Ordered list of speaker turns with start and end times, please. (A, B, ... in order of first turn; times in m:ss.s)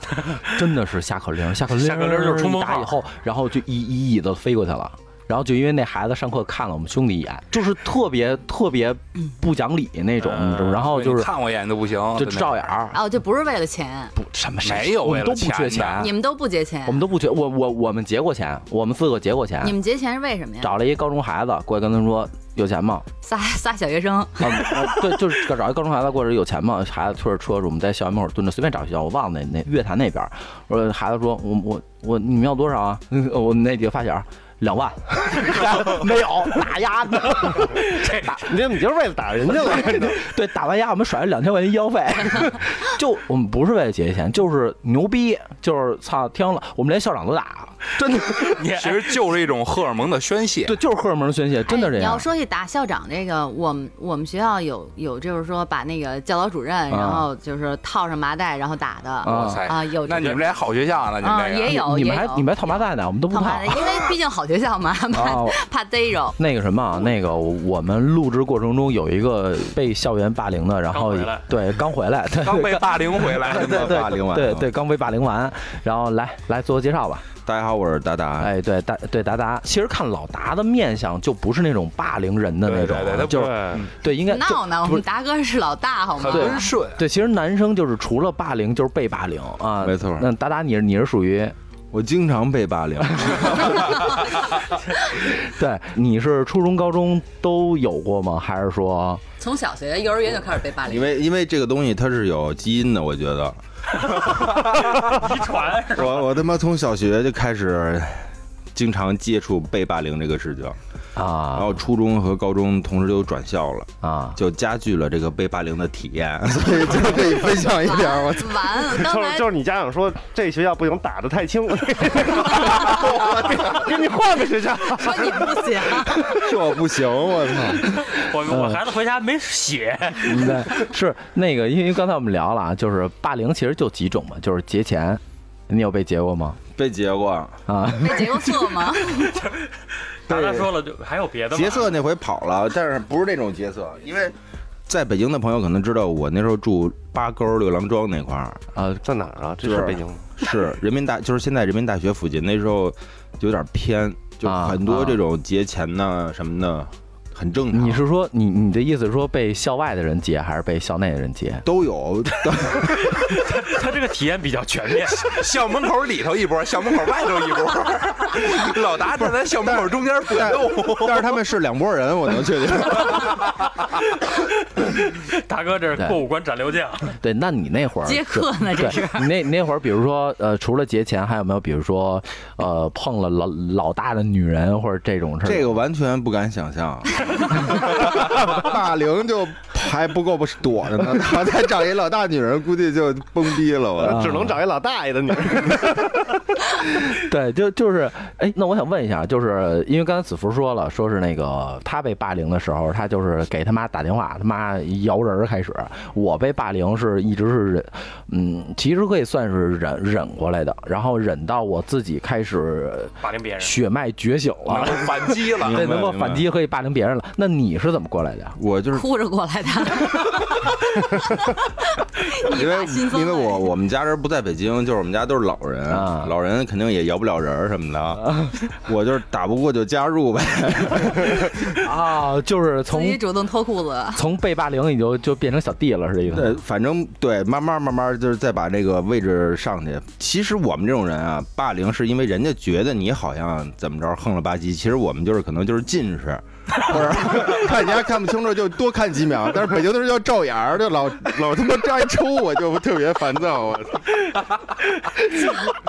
0:00.4-0:11.3 A
0:01.7-0:03.0 B
0:10.5-0:12.6 C
0:12.2-0:13.0 A
0:12.9-0:14.2 D
0:14.2-0:16.1 A
0:14.6-0:16.1 C
0:16.0-0:17.0 D
0:16.9-0:19.8 A
0:19.6-0:20.8 D
0:20.6-0:23.1 A
0:23.2-0:25.2 D
0:24.4-0:38.6 A
0:38.0-0:38.3 B
0:38.4-0:40.2 E
0:39.5-0:48.6 A
0:48.4-0:49.1 B
0:48.7-0:50.8 C
0:50.7-0:52.3 A
0:51.6-1:00.4 D
0:56.9-0:57.3 A
0:59.2-1:01.8 C
0:59.2-0:59.7 A
1:01.2-1:06.4 D
1:01.6-1:04.0 A
1:05.1-1:05.6 A
1:06.4-1:17.3 A
1:10.9-1:11.5 B
1:12.4-1:14.1 C
1:13.6-1:14.7 F
1:17.4-1:18.5 F
1:18.4-1:25.0 A
1:22.7-1:23.9 C
1:23.3-1:23.8 E
1:24.3-1:26.7 D
1:26.2-1:27.0 C
1:26.3-1:31.6 A
1:29.8-1:30.3 F
1:31.9-1:33.9 F
1:33.2-1:33.5 A
1:35.2-1:39.2 A
1:39.4-1:41.1 D
1:40.9-1:45.1 F
1:44.1-1:46.3 B
1:45.9-1:50.8 F
1:51.2-1:51.8 A
1:51.5-1:58.6 F
1:54.0-1:54.4 A
1:57.8-1:59.5 D
1:58.9-2:05.6 E
2:02.9-2:03.6 F
2:04.9-2:06.3 D
2:06.1-2:08.0 F
2:08.0-2:10.8 B
2:08.3-2:08.8 A
2:10.2-2:16.6 A
2:16.8-2:17.6 F
2:17.7-2:18.8 A
2:18.0-2:19.4 D
2:19.2-2:19.7 B
2:20.3-2:22.0 B
2:20.3-2:20.7 F
2:21.5-2:24.4 F
2:24.9-2:28.6 F
2:28.7-2:29.0 A
2:29.0-2:30.4 E
2:29.6-2:38.0 F
2:34.4-2:35.2 A
2:37.7-2:41.7 A
2:41.6-2:43.2 F
2:42.8-2:45.5 B
2:45.1-2:51.4 C
2:49.2-2:53.5 F
2:54.8-2:57.2 B
2:57.2-3:05.8 A
2:58.0-2:59.3 D
3:05.4-3:14.2 F
3:14.0-3:14.6 A
3:14.0-3:16.0 E
3:17.0-3:38.6 A
3:33.2-3:33.8 B
3:34.7-3:35.9 C
3:35.6-3:36.4 F
3:38.6-3:39.1 F
3:38.9-3:43.7 D
3:42.5-3:51.8 F
3:45.9-3:46.3 A
3:51.8-3:53.2 A
3:52.9-3:54.3 D
3:54.2-3:56.6 A
3:56.3-4:14.2 F